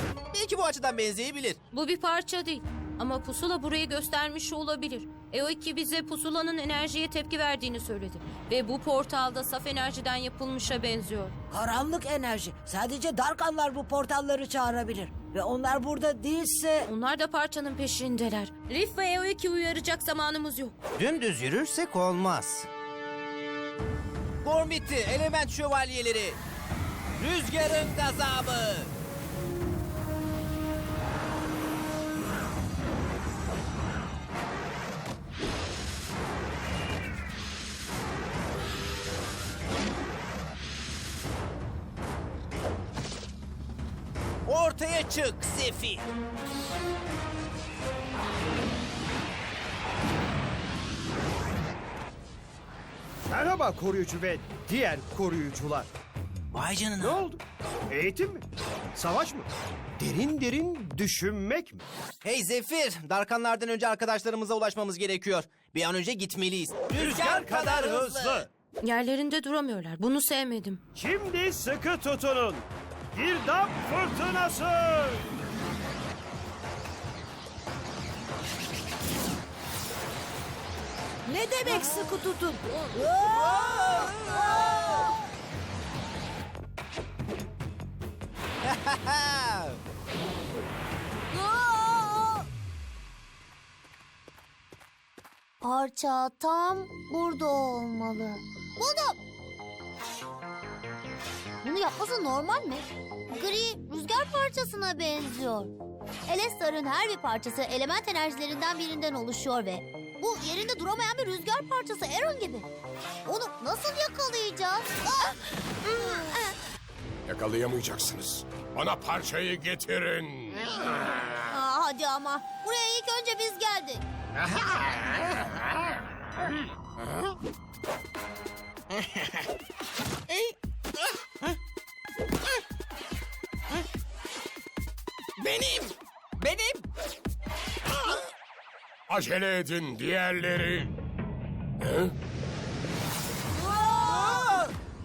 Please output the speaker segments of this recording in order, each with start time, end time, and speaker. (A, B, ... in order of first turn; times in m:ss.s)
0:00.3-0:01.6 A
0:01.7-0:11.4 B
0:11.5-0:16.9 C
0:16.9-0:20.8 B
0:21.0-0:22.7 A
0:24.4-0:26.4 A
0:27.2-0:28.9 A
0:44.5-0:46.1 A
0:53.3-0:55.9 D
0:56.5-0:57.2 A
0:57.0-0:59.5 D
1:00.0-1:01.8 D
1:02.2-1:08.5 A
1:06.9-1:08.5 D
1:08.8-1:10.8 B
1:11.0-1:15.2 D
1:21.3-1:25.1 C
1:23.3-1:25.1 A
1:28.6-1:29.8 A
1:31.3-1:32.2 C
1:35.6-1:39.2 E
1:41.6-1:45.7 E
1:46.3-1:52.7 E
1:53.2-1:55.4 E
1:56.3-1:56.5 E
1:57.3-2:00.8 F
2:01.5-2:04.0 E
2:19.1-2:20.9 F
2:21.8-2:22.1 F
2:24.0-2:24.7 A
2:24.1-2:24.4 C